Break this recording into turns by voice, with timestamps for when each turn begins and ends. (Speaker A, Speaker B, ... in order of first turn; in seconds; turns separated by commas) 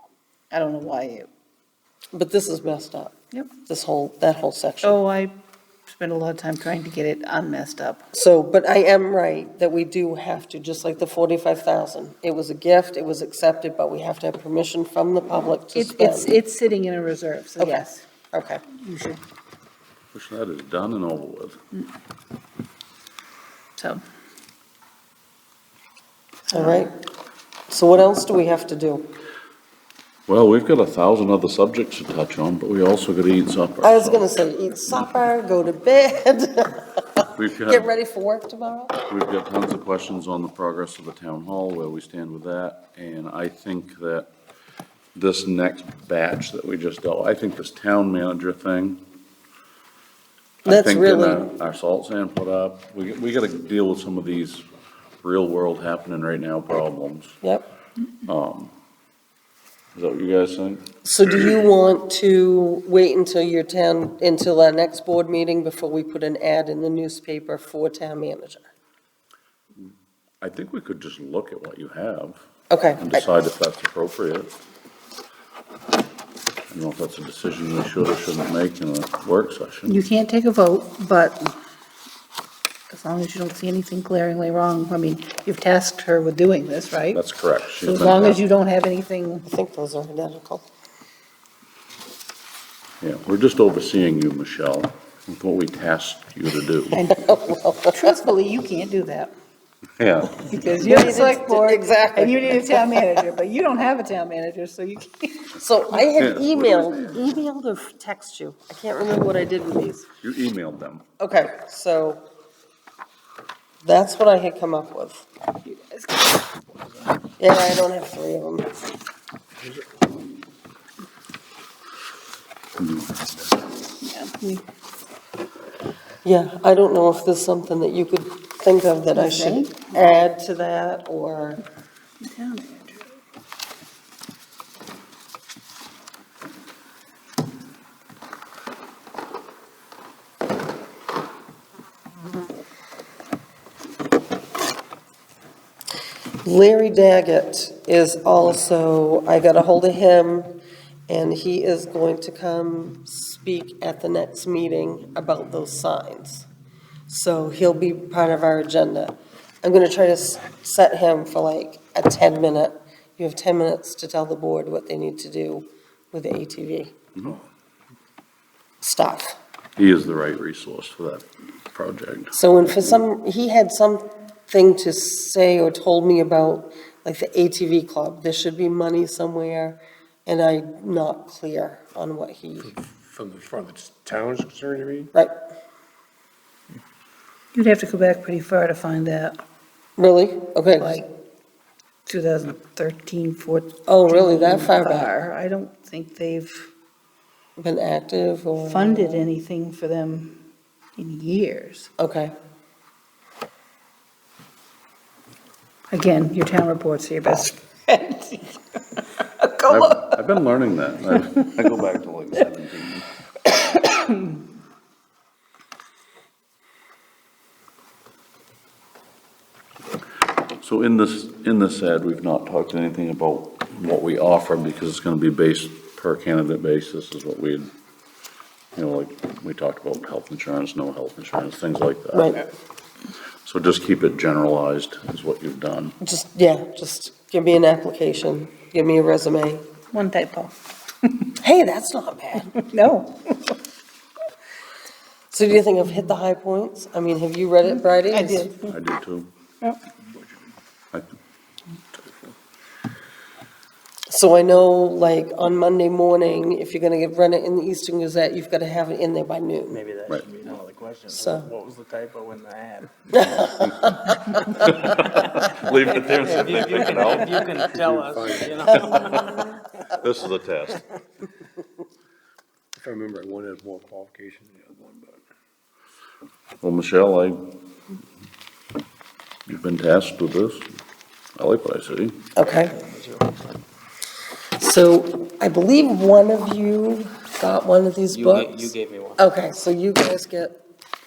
Speaker A: 0.5-1.3, Speaker B: 2.1-3.1, Speaker B: 3.7-5.0, Speaker A: 4.8-5.3, Speaker A: 5.9-8.1, Speaker B: 8.1-16.3, Speaker A: 15.8-18.0, Speaker B: 17.6-18.6, Speaker A: 18.7-19.2, Speaker C: 20.1-21.6, Speaker A: 23.8-24.0, Speaker A: 26.5-26.9, Speaker B: 26.5-26.9, Speaker B: 27.7-29.1, Speaker C: 30.3-34.3, Speaker B: 33.8-39.0, Speaker C: 37.3-37.9, Speaker C: 39.1-44.3, Speaker C: 45.1-49.0, Speaker B: 50.6-51.5, Speaker C: 50.6-54.6, Speaker C: 55.2-57.4, Speaker C: 58.2-58.8, Speaker C: 60.0-60.9, Speaker B: 61.0-68.7, Speaker C: 69.8-72.4, Speaker B: 72.7-73.3, Speaker C: 73.0-74.6, Speaker C: 76.7-80.0, Speaker A: 79.9-81.5, Speaker A: 82.9-87.2, Speaker C: 87.1-88.4, Speaker A: 87.8-89.5, Speaker B: 89.5-90.7, Speaker C: 93.0-97.0, Speaker A: 96.9-97.3, Speaker B: 97.1-98.0, Speaker A: 97.9-99.3, Speaker C: 100.0-100.5, Speaker A: 100.5-105.5, Speaker B: 100.8-103.0, Speaker B: 105.5-110.0, Speaker C: 106.2-107.2, Speaker C: 110.2-111.0, Speaker B: 111.2-112.2, Speaker B: 113.8-115.2, Speaker A: 115.7-116.4, Speaker B: 117.4-118.7, Speaker C: 122.8-123.4, Speaker A: 124.0-124.6, Speaker B: 126.2-131.6, Speaker A: 129.1-130.0, Speaker A: 132.2-133.1, Speaker B: 146.4-150.5, Speaker B: 151.1-156.5, Speaker B: 157.1-166.9, Speaker B: 168.8-169.4, Speaker C: 169.8-172.4, Speaker B: 172.3-182.8, Speaker D: 182.6-185.1, Speaker A: 187.5-189.4, Speaker B: 190.0-191.0, Speaker A: 190.8-191.1, Speaker A: 192.1-196.7, Speaker B: 193.9-195.1, Speaker B: 197.6-199.2, Speaker A: 198.6-200.4, Speaker A: 201.0-201.9, Speaker B: 202.0-202.3, Speaker A: 205.9-208.5, Speaker C: 209.7-213.1, Speaker C: 220.6-227.7, Speaker C: 228.8-232.4, Speaker B: 232.1-232.4, Speaker C: 233.4-236.0, Speaker B: 236.0-239.7, Speaker A: 239.9-241.3, Speaker B: 241.4-242.6, Speaker A: 242.5-243.6, Speaker B: 245.3-248.5, Speaker A: 247.7-248.8, Speaker C: 248.7-249.3, Speaker B: 254.1-259.8, Speaker E: 259.7-263.2, Speaker B: 261.1-261.5, Speaker B: 263.1-264.6, Speaker C: 264.5-267.6, Speaker E: 266.2-269.5, Speaker D: 267.6-268.9, Speaker C: 268.9-270.8, Speaker D: 272.8-275.2, Speaker C: 276.6-277.4, Speaker C: 279.5-280.7, Speaker C: 281.4-282.2, Speaker B: 282.4-282.8, Speaker E: 282.7-283.4, Speaker B: 284.6-290.6, Speaker E: 288.1-289.3